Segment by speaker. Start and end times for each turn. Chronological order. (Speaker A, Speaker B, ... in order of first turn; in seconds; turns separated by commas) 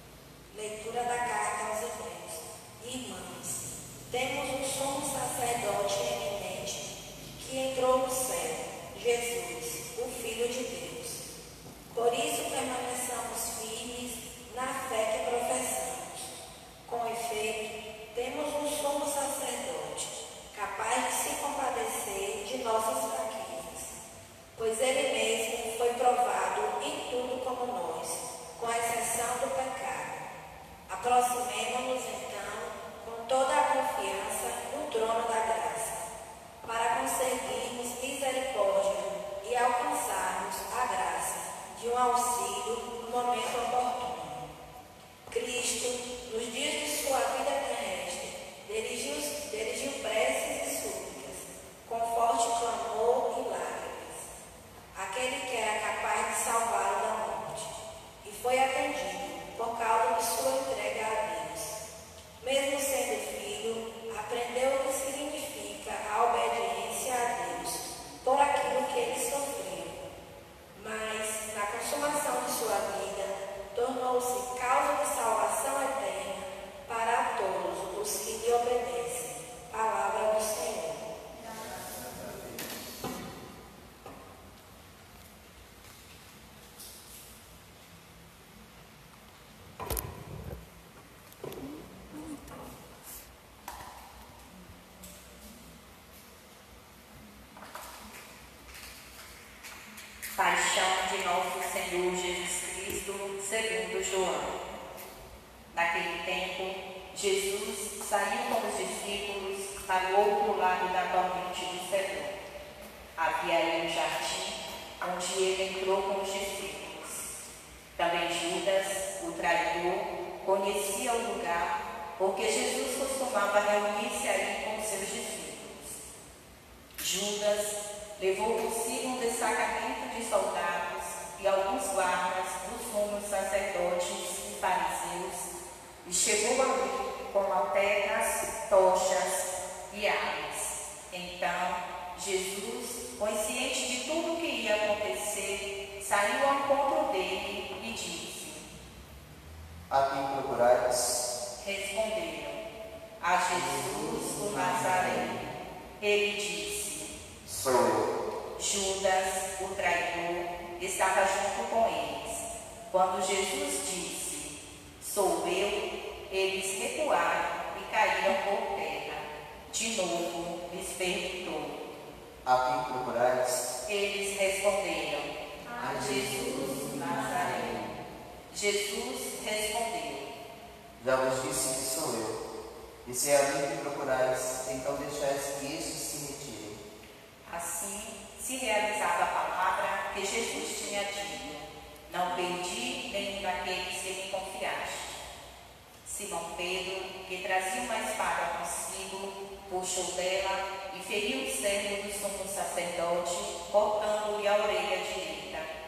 Speaker A: 0.5-11.2, Speaker A: 11.9-16.3, Speaker A: 16.9-23.9, Speaker A: 24.6-30.2, Speaker A: 30.9-36.0, Speaker A: 36.6-44.5, Speaker A: 45.3-54.3, Speaker A: 55.0-61.8, Speaker A: 62.4-70.1, Speaker A: 70.8-81.0, Speaker B: 81.7-82.5, Speaker C: 100.4-104.6, Speaker C: 105.7-112.3, Speaker C: 113.2-117.3, Speaker C: 118.0-126.0, Speaker C: 127.0-135.5, Speaker C: 136.0-148.7, Speaker B: 149.9-151.3, Speaker C: 151.6-152.6, Speaker C: 153.2-155.3, Speaker B: 153.5-155.5, Speaker C: 156.0-157.1, Speaker B: 157.4-158.1, Speaker C: 158.6-171.8, Speaker B: 172.4-173.7, Speaker C: 173.9-175.3, Speaker B: 175.8-177.9, Speaker C: 175.9-177.7, Speaker C: 178.5-180.3, Speaker B: 181.0-182.4, Speaker B: 183.1-186.8, Speaker C: 187.4-195.2, Speaker C: 196.0-205.7